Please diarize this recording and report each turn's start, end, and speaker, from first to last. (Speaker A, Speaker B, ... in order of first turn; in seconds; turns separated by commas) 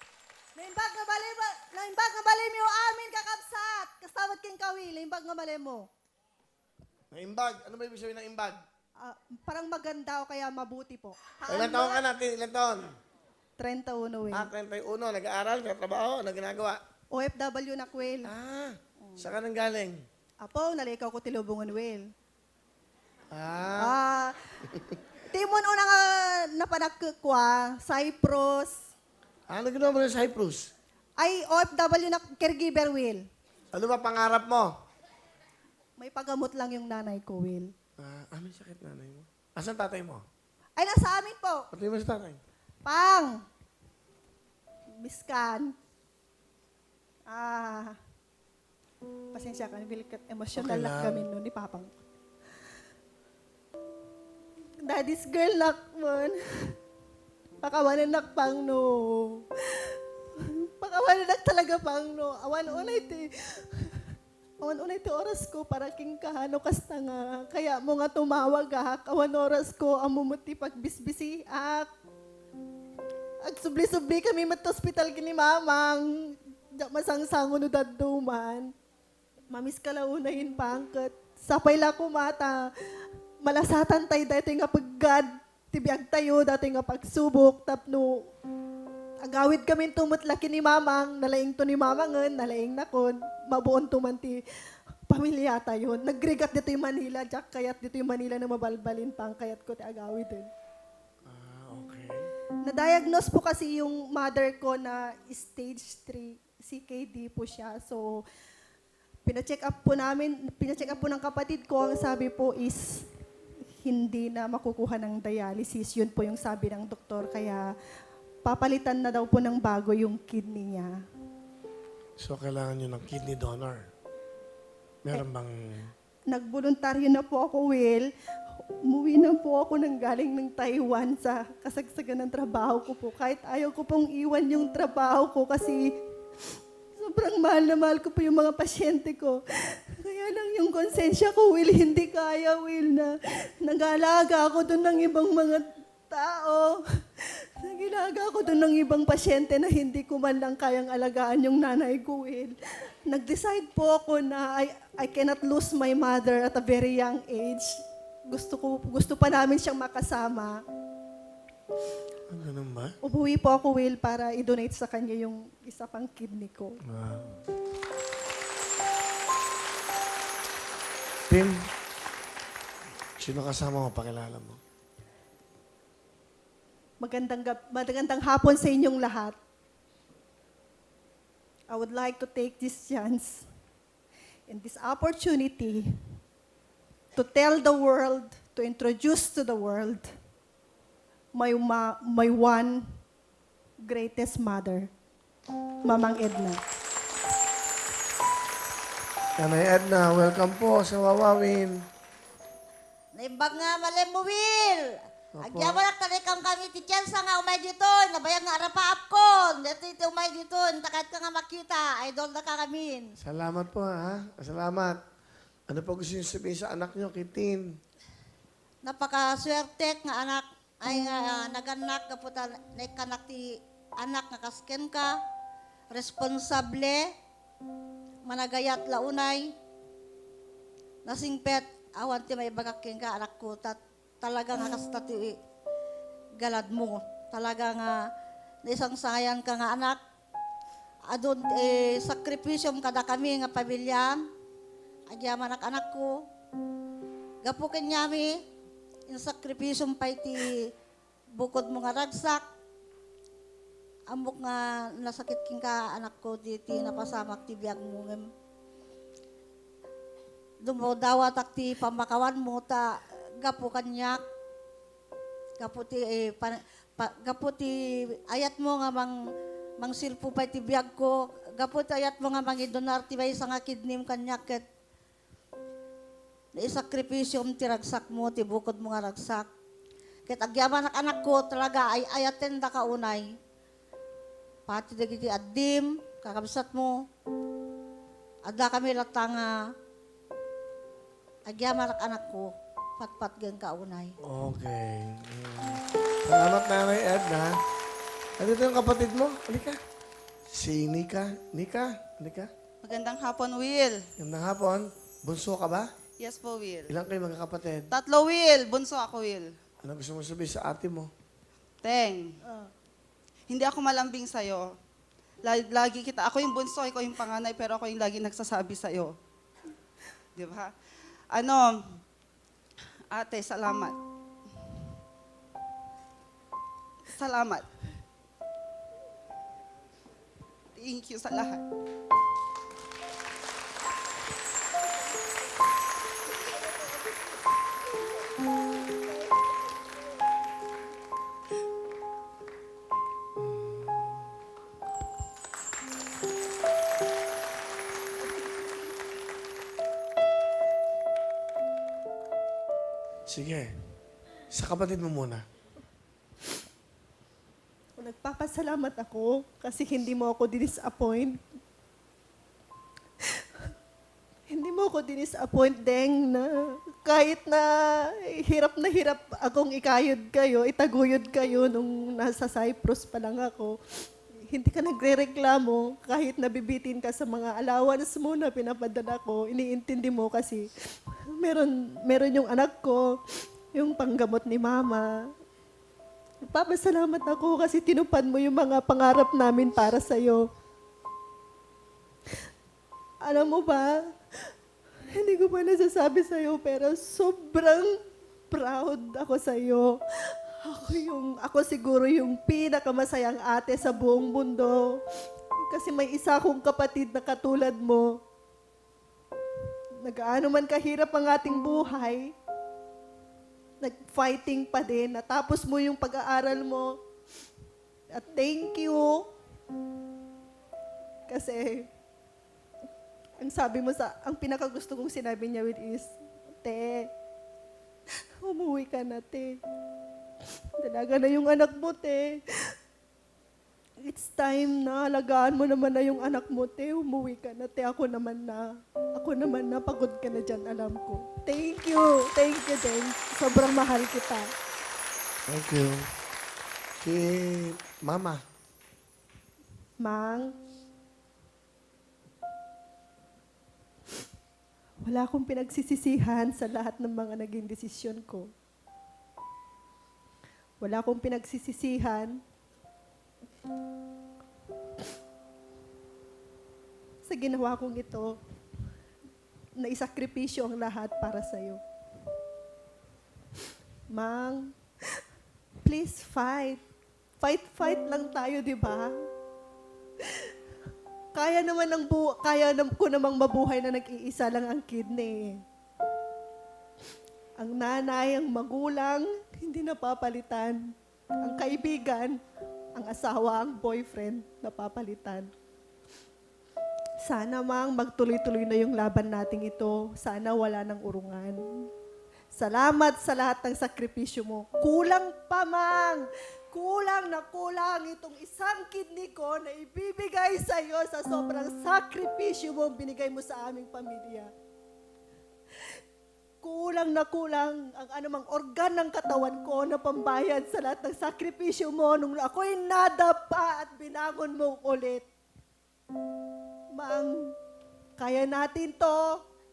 Speaker A: 0.6-5.9, Speaker B: 7.1-8.6, Speaker A: 9.0-12.0, Speaker B: 11.5-12.9, Speaker A: 13.6-14.5, Speaker B: 14.3-16.8, Speaker A: 17.1-18.3, Speaker B: 18.3-20.0, Speaker A: 20.4-22.1, Speaker B: 23.3-23.9, Speaker A: 23.8-24.4, Speaker A: 25.3-28.8, Speaker B: 29.5-30.7, Speaker A: 31.2-33.2, Speaker B: 33.7-34.7, Speaker A: 36.0-37.7, Speaker B: 38.0-40.2, Speaker A: 40.8-41.7, Speaker B: 41.7-42.4, Speaker A: 42.9-43.4, Speaker A: 45.0-45.7, Speaker A: 47.3-48.0, Speaker A: 49.3-52.0, Speaker B: 50.6-51.2, Speaker A: 54.8-56.8, Speaker A: 57.6-71.9, Speaker A: 73.4-78.7, Speaker A: 79.5-88.3, Speaker A: 89.2-94.4, Speaker A: 95.1-100.5, Speaker B: 101.3-102.3, Speaker A: 102.6-108.2, Speaker A: 109.2-113.1, Speaker A: 113.8-117.7, Speaker A: 118.4-121.0, Speaker B: 122.2-123.8, Speaker B: 125.0-125.9, Speaker A: 126.3-128.1, Speaker A: 128.9-135.9, Speaker A: 137.0-152.6, Speaker A: 153.1-160.6, Speaker B: 162.3-162.9, Speaker A: 163.0-166.8, Speaker B: 166.9-167.4, Speaker B: 171.3-171.7, Speaker B: 173.2-174.6, Speaker A: 177.0-179.4, Speaker A: 181.7-183.5, Speaker A: 184.5-185.9, Speaker A: 187.2-190.1, Speaker A: 191.3-192.8, Speaker A: 193.8-194.9, Speaker A: 195.8-196.6, Speaker B: 199.4-201.8, Speaker C: 203.1-213.1, Speaker B: 205.4-205.8, Speaker B: 213.2-215.0, Speaker B: 215.7-217.8, Speaker C: 218.8-225.2, Speaker C: 225.9-227.1, Speaker C: 228.2-229.5, Speaker C: 231.1-235.4, Speaker C: 236.4-238.0, Speaker C: 238.7-240.0, Speaker C: 241.1-244.2, Speaker C: 245.1-246.1, Speaker C: 247.4-248.4, Speaker C: 249.1-250.7, Speaker C: 251.4-252.4, Speaker C: 254.1-258.2, Speaker C: 260.6-264.2, Speaker C: 265.6-269.1, Speaker C: 269.8-274.6, Speaker C: 276.6-279.5, Speaker C: 280.3-283.3, Speaker C: 284.7-286.9, Speaker C: 288.5-289.5, Speaker C: 291.5-294.2, Speaker B: 294.2-297.6, Speaker B: 298.4-299.8, Speaker B: 300.5-302.5, Speaker D: 302.8-304.0, Speaker B: 304.2-305.9, Speaker D: 306.2-306.9, Speaker B: 306.9-307.9, Speaker D: 307.9-309.5, Speaker B: 309.8-311.1, Speaker D: 311.8-312.4, Speaker A: 312.5-312.7, Speaker D: 313.5-314.8, Speaker D: 315.4-319.1, Speaker D: 320.4-320.7, Speaker D: 321.3-322.0, Speaker D: 323.1-324.0, Speaker D: 327.1-327.7, Speaker D: 330.8-331.6, Speaker A: 336.6-337.0, Speaker B: 343.4-344.2, Speaker B: 353.3-353.7, Speaker B: 354.5-355.4, Speaker A: 358.0-361.4, Speaker A: 364.5-373.8, Speaker A: 374.5-383.2, Speaker A: 383.7-385.3, Speaker A: 386.5-390.5, Speaker A: 393.2-394.1, Speaker A: 395.1-398.0, Speaker A: 398.5-405.0, Speaker A: 405.7-408.2, Speaker A: 410.0-412.3, Speaker A: 413.8-417.0, Speaker A: 418.1-419.3, Speaker A: 421.3-421.9, Speaker A: 423.4-427.1, Speaker A: 428.4-429.6, Speaker A: 430.8-432.8, Speaker A: 434.0-444.5, Speaker B: 445.5-446.1, Speaker B: 447.0-448.4, Speaker A: 450.0-450.6, Speaker A: 455.0-458.5, Speaker A: 460.8-462.4, Speaker A: 467.2-468.4, Speaker A: 469.8-471.8, Speaker A: 474.1-474.8, Speaker A: 475.9-476.8, Speaker A: 477.4-479.2, Speaker A: 481.3-485.6, Speaker A: 487.6-492.4, Speaker A: 492.9-495.5, Speaker A: 497.2-501.9, Speaker A: 502.5-514.5, Speaker A: 516.6-525.3, Speaker A: 527.0-527.6, Speaker A: 528.2-529.4